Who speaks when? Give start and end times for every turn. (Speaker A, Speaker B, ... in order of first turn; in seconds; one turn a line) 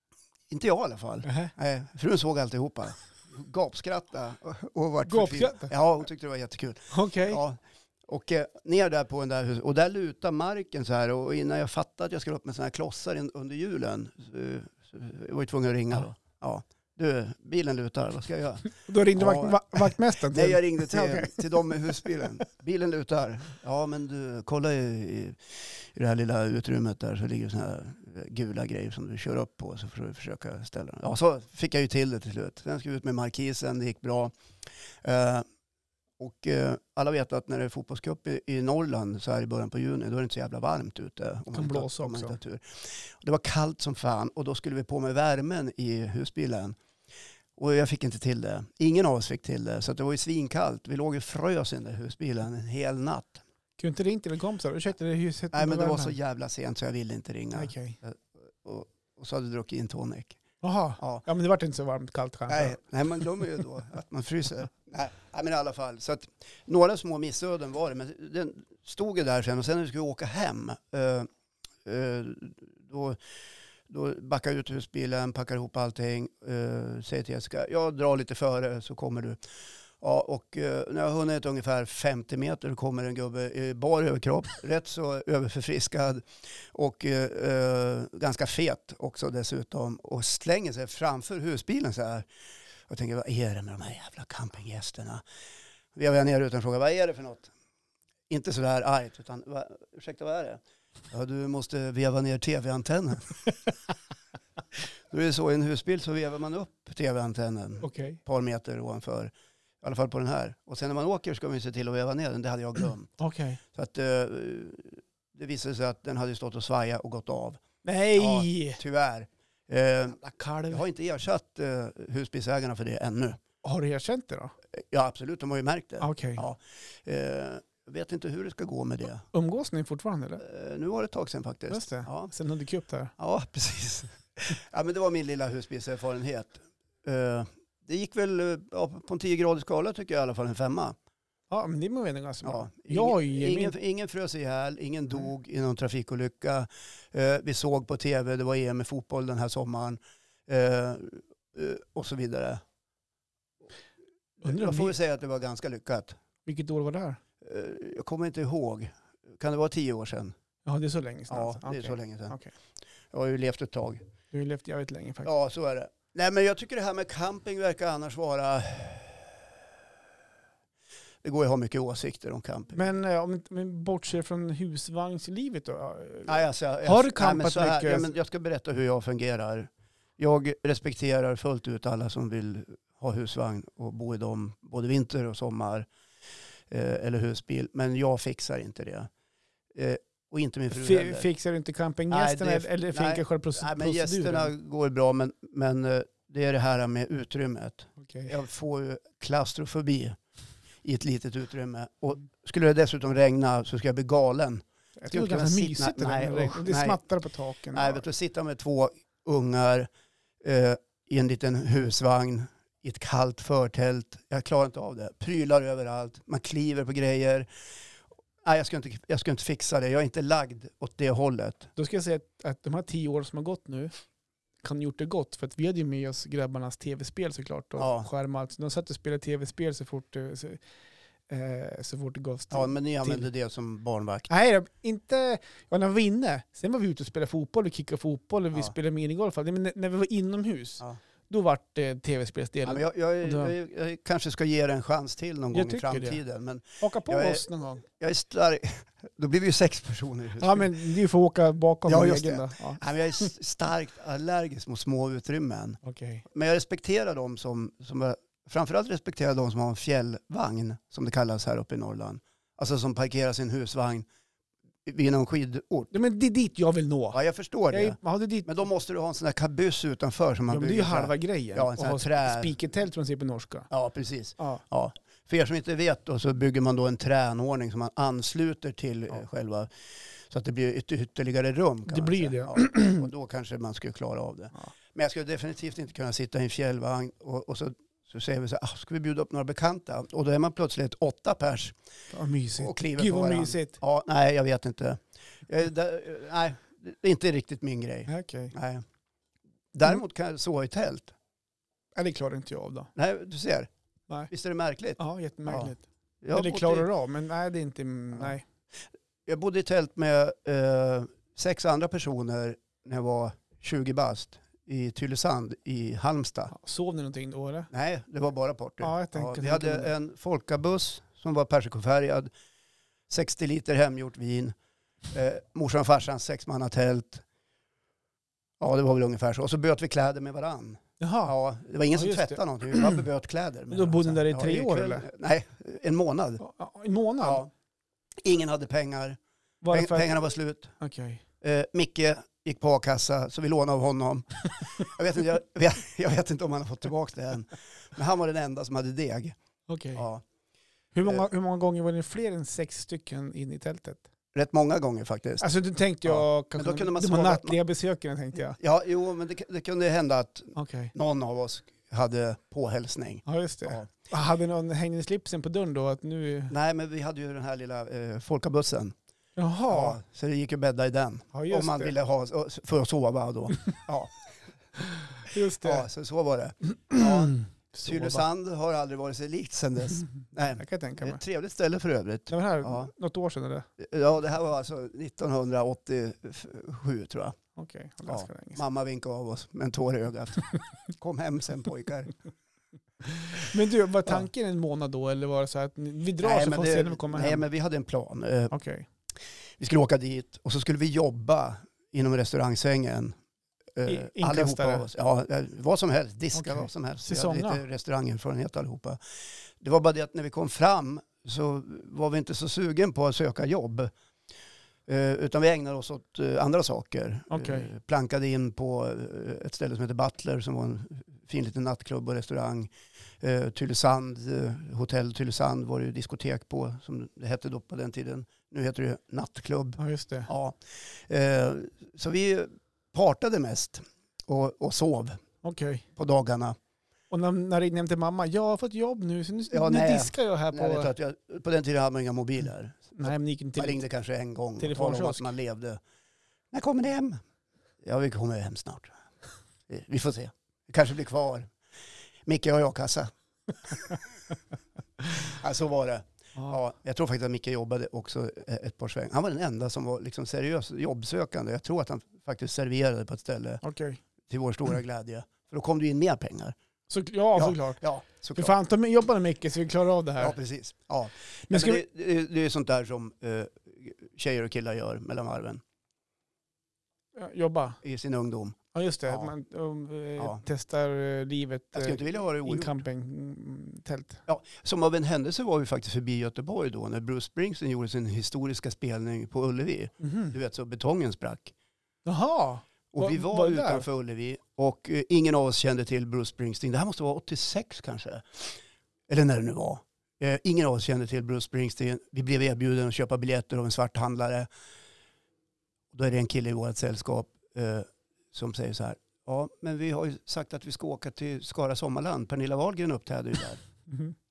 Speaker A: 0.5-34.3
Speaker B: 1.2-1.5
Speaker B: 5.0-5.7
Speaker B: 6.9-7.4
Speaker B: 18.8-21.4
Speaker A: 35.0-35.5
Speaker A: 36.2-46.8
Speaker B: 41.5-42.3
Speaker A: 47.5-53.4
Speaker B: 53.8-56.1
Speaker A: 55.5-60.4
Speaker B: 57.5-58.0
Speaker B: 60.6-62.8
Speaker A: 61.0-61.2
Speaker A: 62.5-71.3
Speaker A: 71.8-73.2
Speaker A: 73.9-79.4
Speaker A: 80.0-92.3
Speaker A: 92.9-95.2
Speaker A: 95.9-97.5
Speaker A: 98.3-103.4
Speaker A: 105.1-113.1
Speaker B: 107.8-108.2
Speaker B: 113.2-113.6
Speaker A: 113.7-117.6
Speaker B: 117.8-118.8
Speaker A: 118.1-123.4
Speaker B: 120.2-120.8
Speaker B: 123.6-124.5
Speaker A: 124.7-129.2
Speaker B: 126.0-126.4
Speaker B: 129.3-130.4
Speaker A: 130.4-132.3
Speaker B: 131.7-133.1
Speaker A: 133.2-140.9
Speaker B: 141.5-143.7
Speaker A: 142.4-152.6
Speaker A: 154.4-156.2
Speaker B: 154.4-154.9
Speaker B: 156.4-157.2
Speaker A: 157.4-160.3
Speaker B: 160.7-162.5
Speaker A: 161.3-162.3
Speaker A: 163.1-164.1
Speaker B: 164.3-165.3
Speaker A: 165.2-169.6
Speaker A: 171.2-172.8
Speaker B: 172.7-178.1
Speaker A: 176.3-185.9
Speaker A: 186.7-189.1
Speaker A: 189.7-191.3
Speaker B: 190.7-194.5
Speaker A: 192.1-200.2
Speaker B: 198.0-198.3
Speaker A: 200.8-207.0
Speaker B: 205.0-208.1
Speaker A: 207.7-209.9
Speaker A: 210.4-217.5
Speaker A: 218.4-221.7
Speaker B: 221.8-223.9
Speaker B: 224.6-230.6
Speaker A: 227.8-228.1
Speaker B: 231.3-233.3
Speaker A: 232.5-234.3
Speaker B: 234.3-243.5
Speaker A: 242.6-250.7
Speaker B: 245.5-246.2
Speaker B: 246.8-247.8
Speaker B: 250.4-253.3
Speaker A: 251.9-264.1
Speaker B: 255.8-256.2
Speaker A: 264.8-265.9
Speaker B: 265.9-267.2
Speaker A: 267.1-272.5
Speaker B: 267.7-268.5
Speaker B: 270.5-273.7
Speaker A: 273.7-291.8
Speaker B: 281.9-283.1
Speaker B: 292.1-293.8
Speaker A: 292.6-298.8
Speaker B: 298.1-298.5
Speaker A: 299.7-301.1
Speaker B: 301.9-302.9
Speaker A: 302.9-303.7
Speaker A: 304.3-306.9
Speaker B: 305.0-308.4
Speaker A: 309.2-316.5
Speaker B: 316.5-317.7
Speaker A: 317.7-322.3
Speaker B: 318.8-319.9
Speaker A: 323.1-324.5
Speaker A: 325.1-327.2
Speaker A: 328.6-336.4
Speaker B: 331.0-331.3
Speaker B: 331.9-333.0
Speaker B: 333.7-335.1
Speaker B: 336.4-337.4
Speaker A: 337.2-337.5
Speaker A: 338.2-339.2
Speaker B: 339.6-340.1
Speaker A: 339.7-340.7
Speaker B: 340.8-341.2
Speaker A: 341.4-349.4
Speaker B: 349.7-350.0
Speaker A: 349.9-350.2
Speaker B: 350.9-354.1
Speaker A: 354.3-355.5
Speaker B: 355.4-358.6
Speaker A: 356.0-357.6
Speaker A: 358.5-363.9
Speaker B: 360.5-360.9
Speaker B: 363.2-366.5
Speaker A: 366.5-368.9
Speaker B: 369.4-370.0
Speaker A: 369.7-374.2
Speaker B: 371.3-371.9
Speaker B: 375.2-375.9
Speaker A: 375.6-382.9
Speaker B: 376.7-378.2
Speaker B: 380.6-381.2
Speaker B: 382.3-383.7
Speaker A: 383.8-387.4
Speaker B: 387.6-388.6
Speaker A: 388.1-392.1
Speaker B: 393.1-397.4
Speaker A: 396.2-398.5
Speaker B: 398.5-398.9
Speaker A: 399.6-403.2
Speaker A: 403.8-409.0
Speaker B: 403.9-404.8
Speaker B: 406.3-407.6
Speaker A: 409.6-413.9
Speaker A: 414.9-435.2
Speaker B: 417.3-417.7
Speaker B: 429.8-430.3
Speaker B: 435.4-435.9
Speaker A: 435.9-436.6
Speaker B: 437.1-440.9
Speaker A: 439.5-445.8
Speaker B: 443.0-443.8
Speaker B: 444.6-445.3
Speaker A: 446.5-447.2
Speaker A: 447.8-448.9
Speaker A: 449.7-451.5
Speaker A: 452.2-453.1
Speaker A: 453.6-453.9
Speaker A: 455.1-463.6
Speaker B: 463.6-464.0
Speaker A: 464.3-466.6
Speaker B: 466.9-467.8
Speaker A: 467.3-468.6
Speaker B: 468.3-470.4
Speaker A: 470.2-475.6
Speaker B: 471.5-471.8
Speaker B: 477.1-477.8
Speaker A: 477.8-479.3
Speaker B: 478.7-484.2
Speaker A: 481.7-482.8
Speaker A: 484.3-491.5
Speaker B: 490.0-490.3
Speaker B: 492.1-493.9
Speaker A: 492.9-504.5
Speaker A: 505.9-513.6
Speaker B: 513.9-514.1